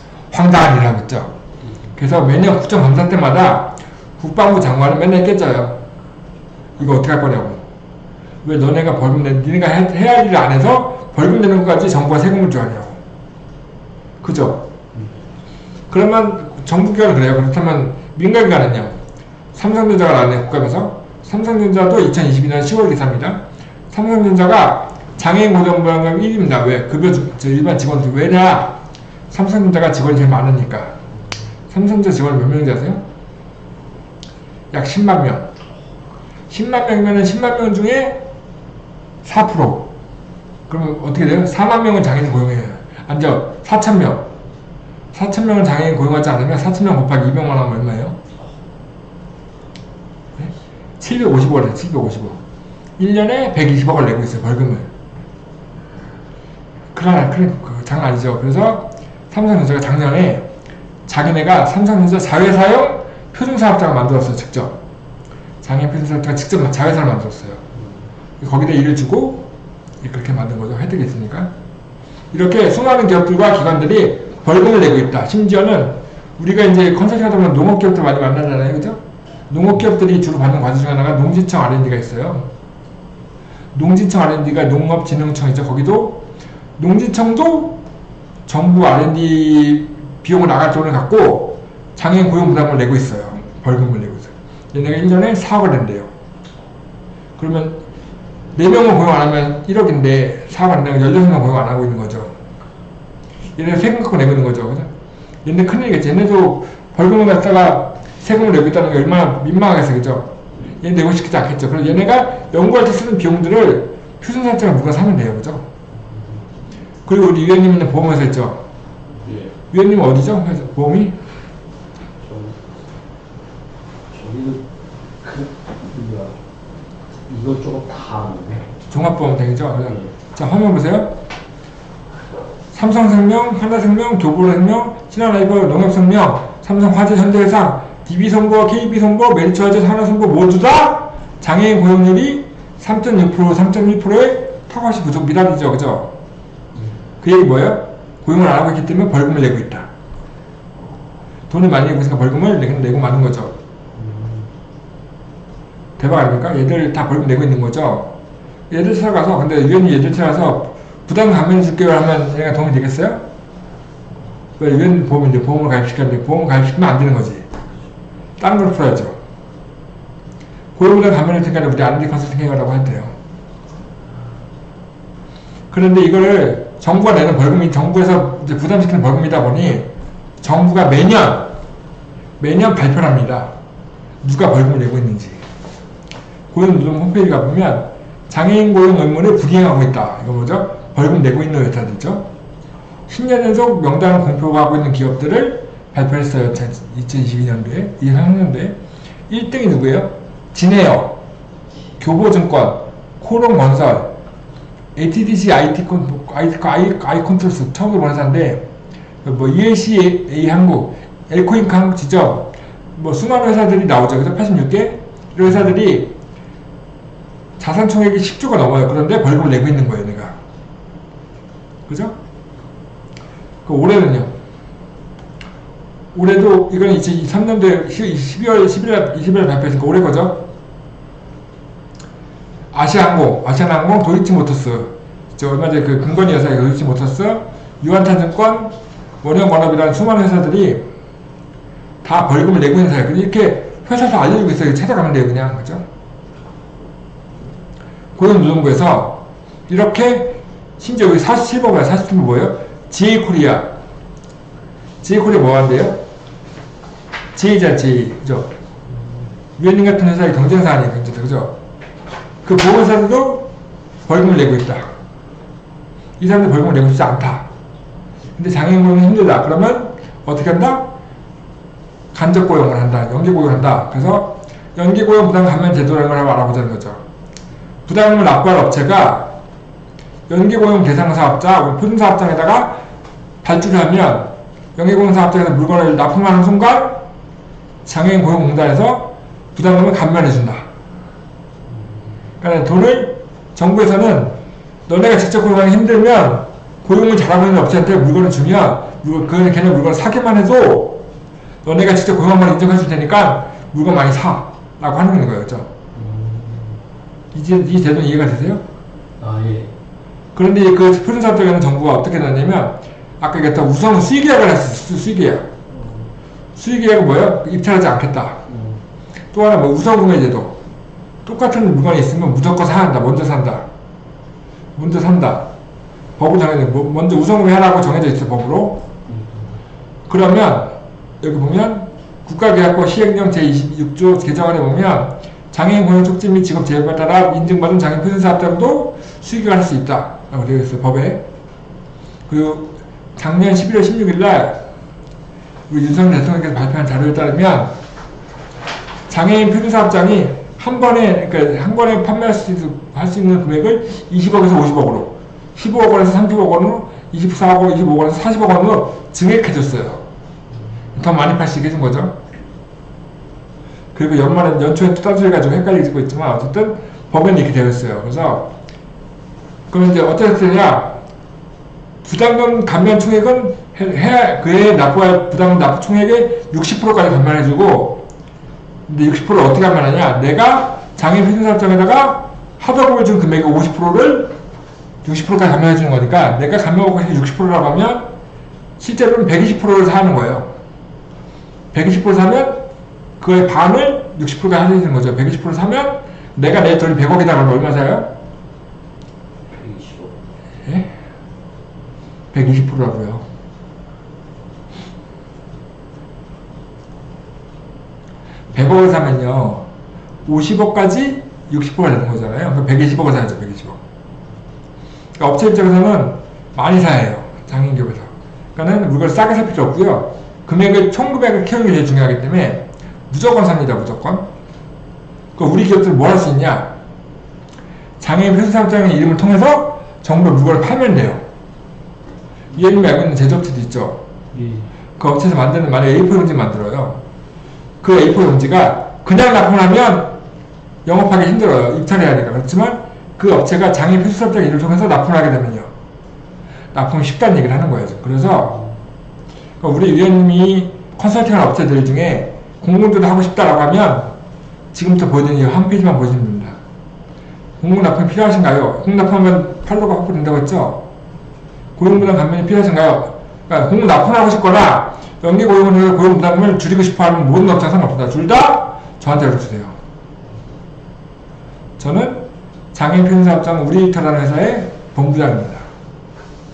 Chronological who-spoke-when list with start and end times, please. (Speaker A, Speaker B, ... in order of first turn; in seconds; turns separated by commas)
Speaker A: 0.3-1.3, Speaker A: 1.9-5.8, Speaker A: 6.8-7.6, Speaker A: 8.4-13.0, Speaker A: 14.2-14.7, Speaker A: 15.9-19.0, Speaker A: 19.5-28.8, Speaker A: 29.3-31.0, Speaker A: 31.7-33.0, Speaker A: 34.7-35.5, Speaker A: 36.5-38.2, Speaker A: 39.2-39.9, Speaker A: 40.7-44.3, Speaker A: 45.1-48.2, Speaker A: 50.4-52.4, Speaker A: 53.0-54.9, Speaker A: 56.9-60.5, Speaker A: 61.1-64.8, Speaker A: 65.6-67.6, Speaker A: 68.4-69.5, Speaker A: 70.0-71.5, Speaker A: 72.3-82.5, Speaker A: 83.7-87.8, Speaker A: 88.5-96.1, Speaker A: 97.4-97.8, Speaker A: 98.5-102.3, Speaker A: 103.6-104.9, Speaker A: 105.4-115.7, Speaker B: 116.0-116.5, Speaker A: 117.0-118.6, Speaker B: 119.1-119.5, Speaker A: 119.7-121.2, Speaker B: 122.2-122.7, Speaker B: 124.1-124.7, Speaker B: 125.2-126.4, Speaker B: 127.3-128.8, Speaker A: 128.9-131.2, Speaker A: 132.7-146.1, Speaker A: 147.2-149.9, Speaker A: 151.5-153.6, Speaker B: 153.9-154.5, Speaker A: 156.0-158.1, Speaker A: 158.7-163.2, Speaker A: 164.6-167.5, Speaker A: 168.4-169.2, Speaker A: 170.8-173.1, Speaker A: 175.7-179.9, Speaker A: 180.4-181.5, Speaker A: 182.4-183.5, Speaker A: 184.2-185.4, Speaker A: 186.5-192.3, Speaker A: 193.1-198.8, Speaker A: 199.3-201.2, Speaker A: 202.0-204.1, Speaker A: 204.9-208.7, Speaker A: 209.2-216.1, Speaker A: 217.6-220.4, Speaker A: 221.9-222.2, Speaker A: 223.6-224.3, Speaker A: 226.1-230.5, Speaker A: 232.7-240.9, Speaker A: 242.0-245.8, Speaker A: 248.2-253.7, Speaker A: 255.0-256.0, Speaker A: 257.3-258.5, Speaker A: 259.6-261.6, Speaker A: 262.4-263.5, Speaker A: 264.1-264.9, Speaker A: 266.2-267.5, Speaker A: 268.4-270.9, Speaker A: 272.1-277.0, Speaker A: 277.9-279.3, Speaker A: 280.3-282.8, Speaker A: 283.4-287.0, Speaker A: 287.8-290.6, Speaker A: 292.4-301.0, Speaker A: 301.6-305.7, Speaker B: 305.9-306.8, Speaker A: 307.3-308.6, Speaker B: 309.2-309.7, Speaker A: 310.3-315.5, Speaker B: 315.7-316.1, Speaker A: 316.6-318.4, Speaker B: 318.5-318.8, Speaker A: 319.3-320.6, Speaker A: 321.2-323.7, Speaker A: 324.8-325.5, Speaker A: 326.2-328.9, Speaker B: 329.1-329.6, Speaker A: 330.1-341.2, Speaker A: 342.3-344.6, Speaker A: 345.7-347.7, Speaker A: 349.1-360.0, Speaker A: 360.9-362.2, Speaker A: 363.9-368.5, Speaker A: 369.7-371.0, Speaker A: 372.0-378.1, Speaker A: 378.9-384.3, Speaker A: 385.0-388.1, Speaker A: 388.8-390.5, Speaker A: 391.7-392.6, Speaker A: 393.2-398.1, Speaker B: 399.5-400.2, Speaker A: 400.7-400.9, Speaker A: 402.3-403.2, Speaker A: 408.5-409.7, Speaker A: 410.2-413.8, Speaker A: 415.2-424.3, Speaker A: 425.4-426.7, Speaker A: 428.0-431.2, Speaker A: 432.5-434.0, Speaker B: 434.3-434.7, Speaker A: 435.0-437.0, Speaker A: 437.8-440.2, Speaker A: 440.8-445.7, Speaker A: 446.7-448.6, Speaker A: 449.6-454.1, Speaker A: 454.7-456.6, Speaker A: 457.6-460.8, Speaker A: 461.8-469.8, Speaker A: 471.8-475.6